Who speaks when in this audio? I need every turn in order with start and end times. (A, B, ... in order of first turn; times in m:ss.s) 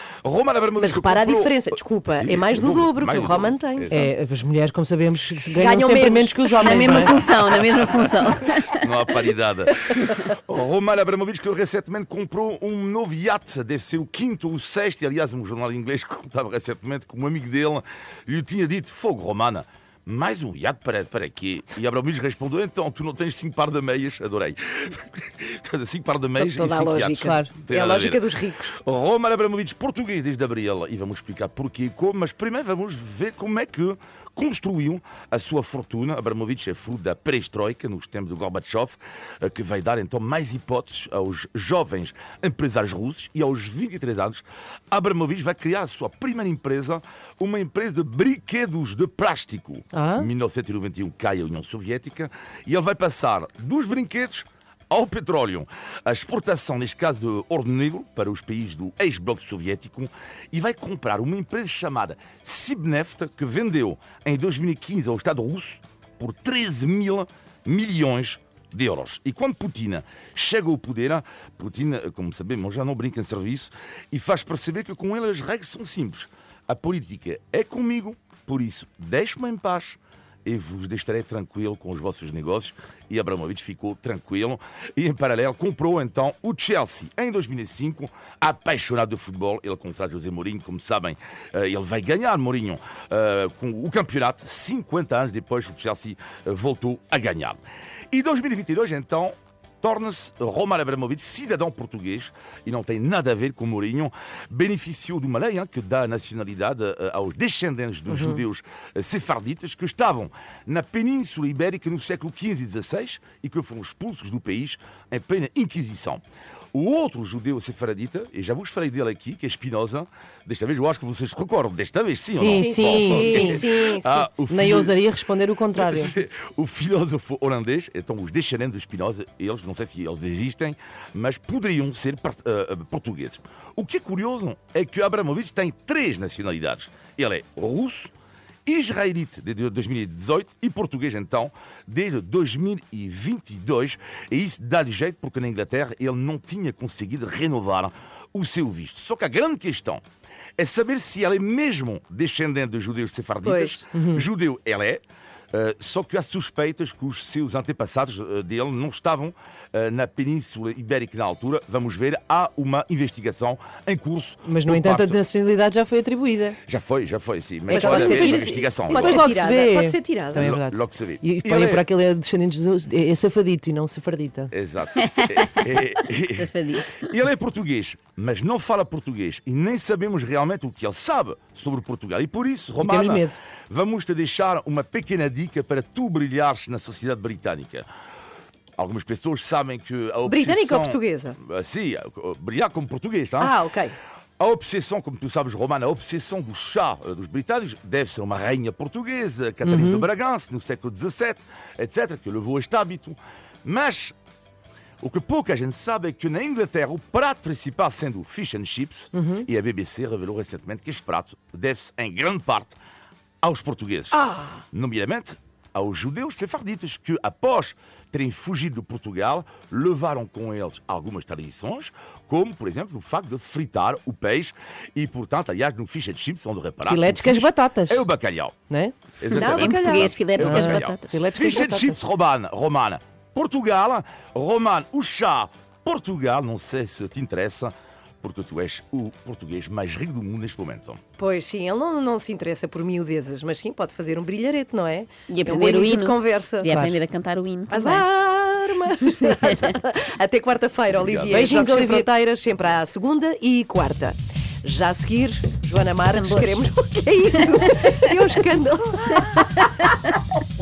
0:00.2-0:04.0 A
0:00.8-0:04.1 B
0:03.9-0:07.2 C
0:05.4-0:07.2 B
0:06.6-0:08.9 D
0:08.8-1:37.6 A
0:26.4-0:28.7 B
0:27.2-0:27.5 C
0:49.9-0:50.3 C
1:38.1-1:56.2 A
1:48.1-1:48.4 C
1:56.7-2:05.0 A
2:02.4-2:03.6 C
2:02.4-2:04.2 B
2:04.3-2:06.1 C
2:05.8-2:18.1 A
2:18.6-2:30.0 A
2:30.6-2:35.0 A
2:33.4-2:33.8 B
2:33.9-2:34.3 C
2:35.5-2:45.2 A
2:44.4-2:46.6 C
2:46.7-2:49.2 A
2:47.7-2:54.5 C
2:47.7-2:50.5 B
2:50.3-2:51.8 A
2:54.5-3:07.8 A
2:55.0-2:55.7 D
2:56.4-2:57.1 D
3:02.8-3:03.4 C
3:08.8-3:13.6 A
3:10.2-3:11.4 B
3:13.4-3:14.0 B
3:14.4-3:24.1 A
3:19.6-3:20.1 C
3:25.0-3:32.8 A
3:29.1-3:29.4 C
3:33.4-3:34.2 A
3:34.2-3:34.6 B
3:34.7-3:48.5 A
3:46.8-3:48.0 C
3:48.7-3:48.9 C
3:49.2-4:01.0 A
3:49.3-3:51.3 D
3:49.3-3:50.1 B
3:50.4-3:52.0 C
4:01.2-4:06.7 B
4:05.3-4:08.0 D
4:06.6-4:07.0 C
4:07.7-4:19.9 B
4:09.2-4:09.7 D
4:11.0-4:11.4 A
4:11.3-4:12.1 C
4:16.1-4:16.7 D
4:19.3-4:20.2 D